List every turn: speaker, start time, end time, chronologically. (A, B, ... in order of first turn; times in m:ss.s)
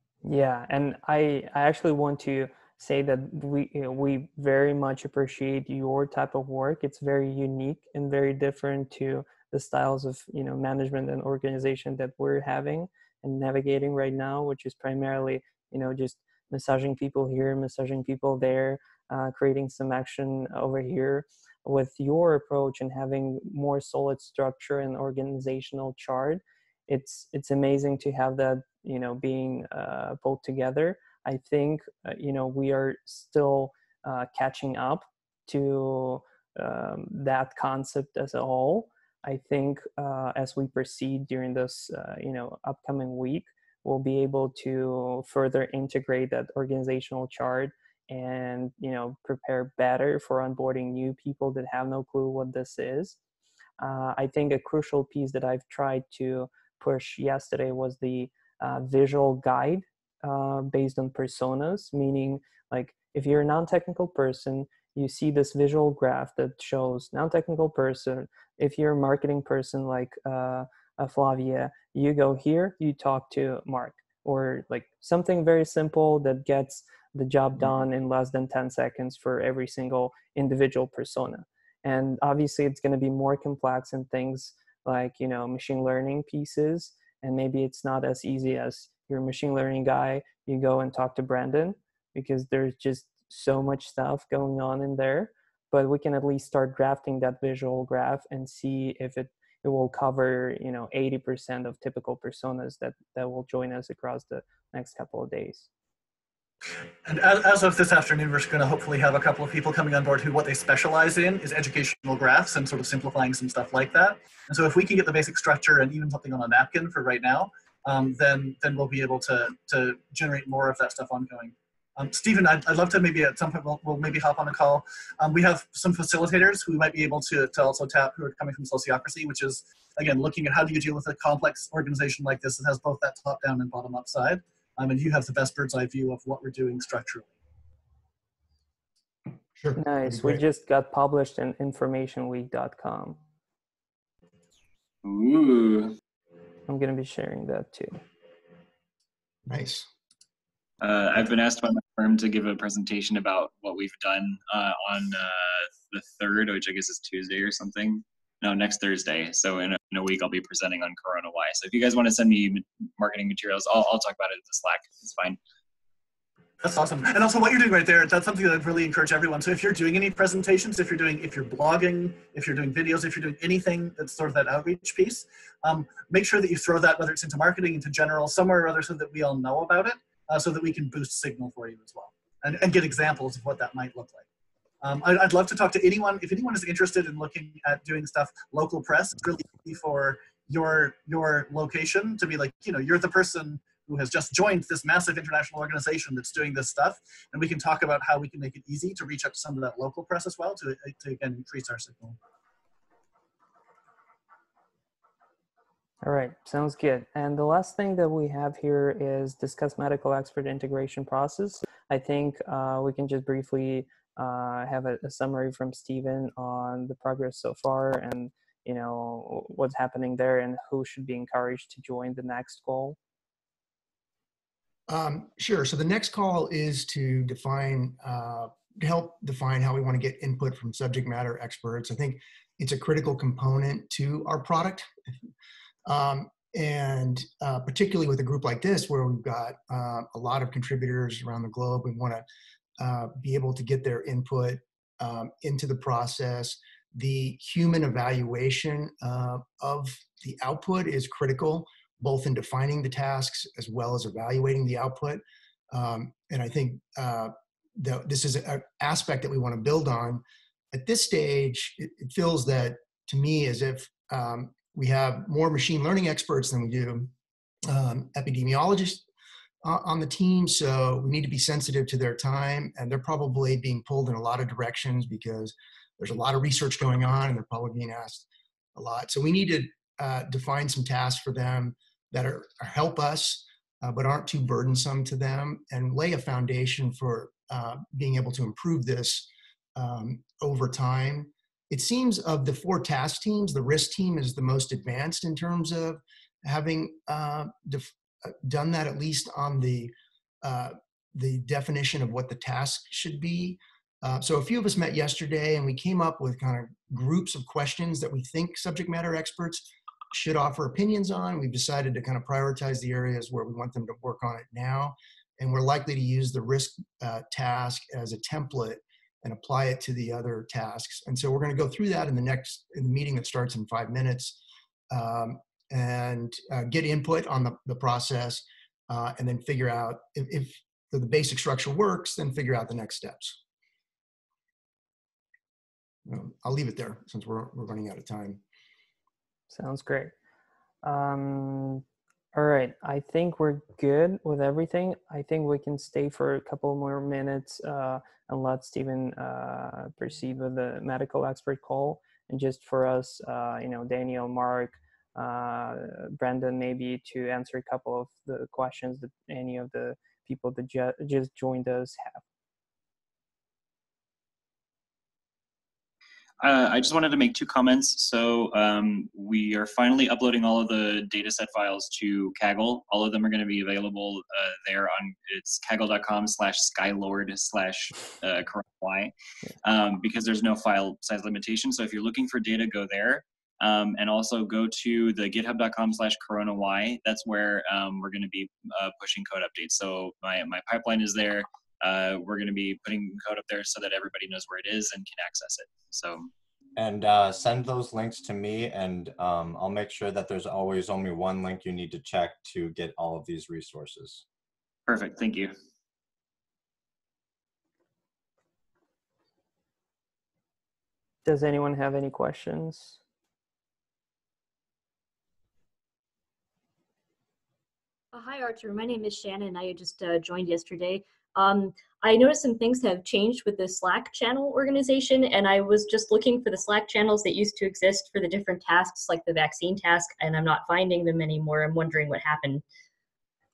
0:00.2-0:53.2 A
0:53.8-1:45.7 A
1:47.0-2:17.3 B
2:19.6-2:20.4 C
2:19.8-2:23.2 A
2:25.0-2:26.0 D
2:26.7-2:28.0 A
2:29.5-2:29.9 C
2:30.8-2:45.4 D
2:46.6-3:04.2 B
3:04.8-3:22.2 B
3:26.0-3:43.0 A
3:44.9-3:54.9 C
3:55.9-4:02.2 C
4:02.8-4:27.1 C
4:27.7-4:29.1 C
4:29.6-5:24.4 C
5:24.9-5:33.4 C
5:36.1-5:38.4 C
5:39.5-5:40.1 A
5:40.8-5:41.8 A
5:42.3-6:02.2 A
6:06.4-6:36.3 D
6:36.8-6:44.2 E
6:44.9-6:45.6 D
6:51.2-6:53.0 A
6:58.1-7:12.6 F